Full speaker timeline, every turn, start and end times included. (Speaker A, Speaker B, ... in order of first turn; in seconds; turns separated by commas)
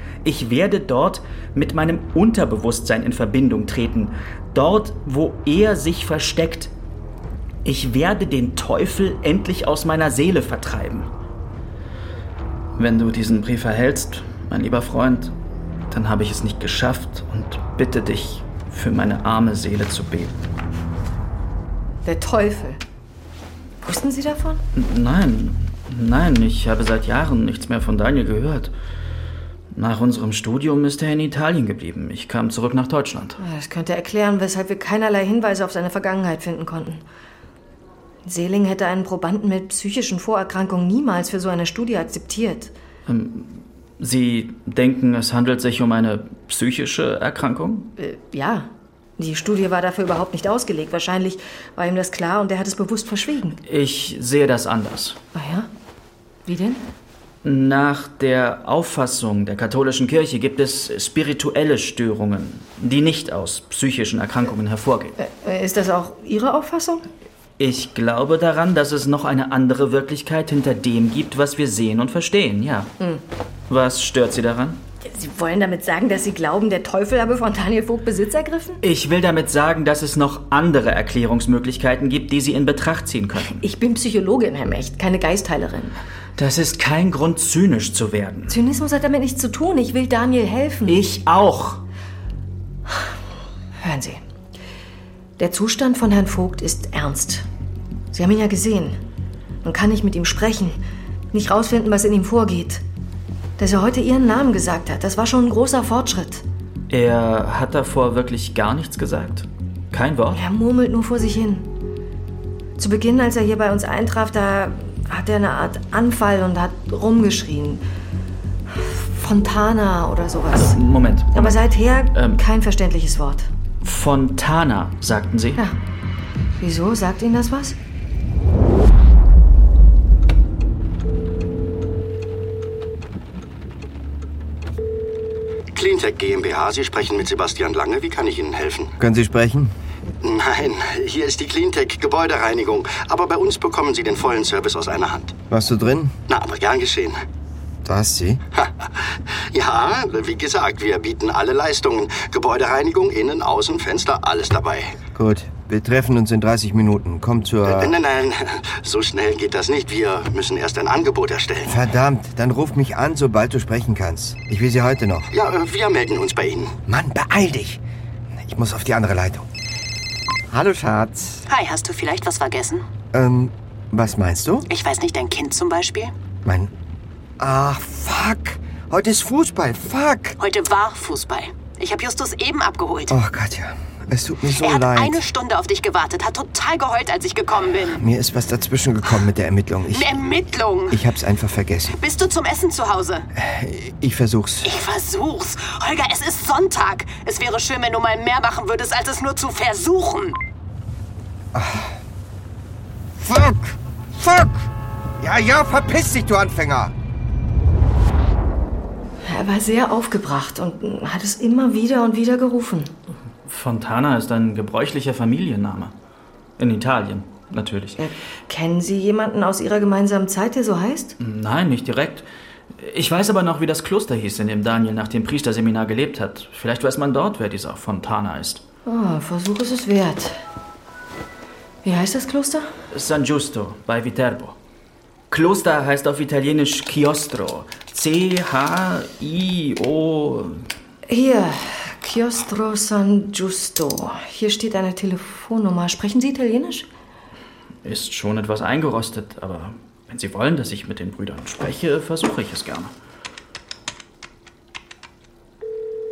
Speaker A: 0.2-6.7, Speaker A: 7.7-11.1, Speaker A: 12.8-15.3, Speaker A: 15.9-20.5, Speaker B: 22.1-22.8, Speaker B: 23.8-24.6, Speaker A: 24.8-28.7, Speaker A: 29.7-33.4, Speaker B: 33.4-37.0, Speaker B: 38.3-42.7, Speaker A: 43.1-47.9, Speaker B: 48.0-53.6, Speaker A: 53.7-55.2, Speaker B: 55.3-55.7, Speaker B: 56.5-56.9, Speaker A: 57.4-65.2, Speaker B: 65.2-67.0, Speaker A: 67.6-72.9, Speaker A: 73.7-74.8, Speaker B: 75.0-78.8, Speaker A: 78.8-83.6, Speaker B: 83.6-86.0, Speaker A: 86.4-88.6, Speaker B: 88.5-91.0, Speaker A: 90.9-91.8, Speaker B: 93.8-94.2, Speaker B: 95.4-97.5, Speaker B: 98.1-99.0, Speaker B: 99.6-100.8, Speaker B: 101.3-102.8, Speaker B: 103.6-106.4, Speaker A: 106.9-110.4, Speaker B: 110.3-111.7, Speaker B: 112.8-117.8, Speaker B: 118.7-120.8, Speaker A: 120.5-122.4, Speaker B: 121.3-123.5, Speaker A: 123.8-125.6, Speaker B: 126.6-127.8, Speaker C: 135.7-138.9, Speaker D: 139.0-139.7, Speaker C: 140.2-145.3, Speaker D: 145.5-146.2, Speaker C: 146.3-147.2, Speaker D: 147.8-148.4, Speaker C: 148.6-155.0, Speaker D: 155.2-157.9, Speaker C: 157.7-161.8, Speaker D: 161.7-165.3, Speaker C: 165.3-166.8, Speaker D: 166.9-167.8, Speaker D: 168.4-169.5, Speaker D: 170.5-171.4, Speaker E: 171.5-172.8, Speaker D: 173.1-174.7, Speaker E: 174.7-176.1, Speaker D: 176.4-176.7, Speaker D: 177.4-180.4, Speaker E: 180.4-183.2, Speaker D: 183.1-185.2, Speaker E: 184.5-188.0, Speaker D: 188.0-190.1, Speaker E: 189.9-191.0, Speaker D: 190.9-191.9, Speaker E: 191.9-193.3, Speaker D: 193.4-194.7, Speaker E: 194.6-200.4, Speaker D: 201.5-201.9, Speaker D: 203.2-204.7, Speaker D: 205.2-206.9, Speaker B: 209.2-212.9, Speaker A: 213.4-215.9, Speaker A: 216.6-218.0, Speaker B: 218.0-221.2, Speaker A: 221.2-222.2, Speaker A: 222.8-228.6, Speaker B: 228.9-230.4, Speaker B: 231.8-232.7, Speaker A: 232.9-234.6, Speaker A: 235.3-240.6, Speaker B: 241.1-246.9, Speaker A: 247.8-252.9